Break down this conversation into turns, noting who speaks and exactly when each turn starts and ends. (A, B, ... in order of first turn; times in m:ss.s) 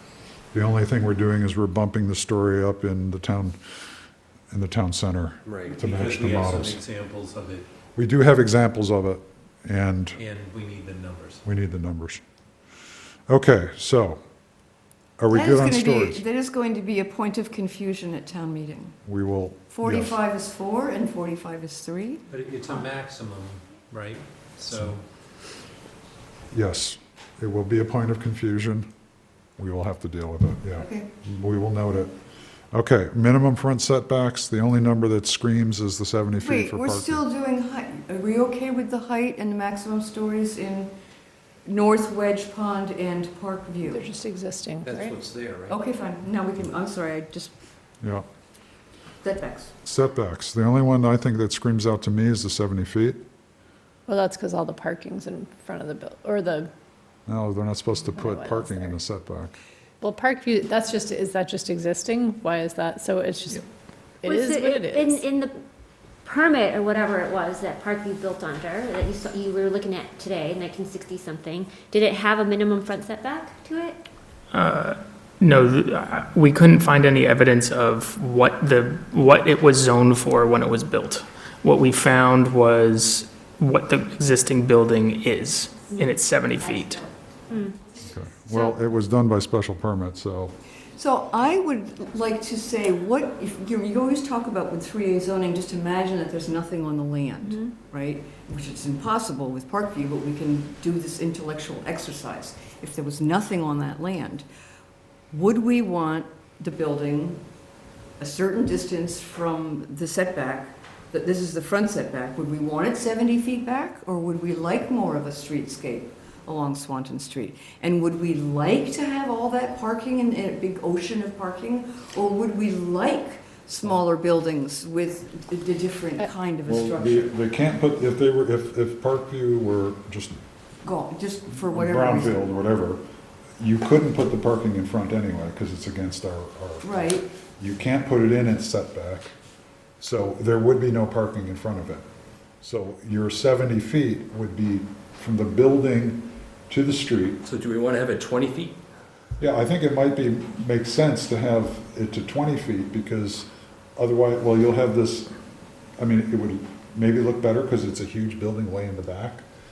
0:00.5-0:03.6 A
0:04.5-0:06.8 A
0:05.4-0:05.8 B
0:05.7-0:07.6 C
0:08.0-0:10.2 A
0:10.2-0:11.4 C
0:11.4-0:12.2 A
0:13.3-0:14.2 A
0:15.2-0:16.2 A
0:15.3-0:19.0 D
0:19.0-0:20.2 A
0:19.7-0:22.2 D
0:22.3-0:25.0 C
0:26.5-0:28.9 A
0:29.6-0:32.1 A
0:30.8-0:31.0 D
0:32.7-0:37.2 A
0:36.4-0:40.9 D
0:41.6-0:44.0 D
0:43.9-0:45.1 E
0:44.8-0:45.8 B
0:45.7-0:47.5 D
0:49.2-0:49.7 D
0:49.8-0:53.2 A
0:54.1-0:56.7 E
0:57.3-0:59.6 A
0:58.1-0:59.0 E
1:00.0-1:03.6 E
1:04.2-1:05.2 E
1:04.2-1:05.6 F
1:06.2-1:14.0 F
1:14.5-1:27.1 G
1:27.5-1:27.8 F
1:28.0-1:30.5 A
1:31.0-1:44.4 D
1:45.3-1:47.4 D
1:48.2-2:07.3 D
2:06.6-2:10.4 A
2:10.8-2:12.4 D
2:11.6-2:13.0 A
2:13.6-2:19.3 A
2:16.8-2:17.3 D
2:20.0-2:22.0 A
2:22.6-2:27.4 A
2:27.4-2:28.7 B
2:29.4-2:35.3 A
2:36.0-2:39.4 A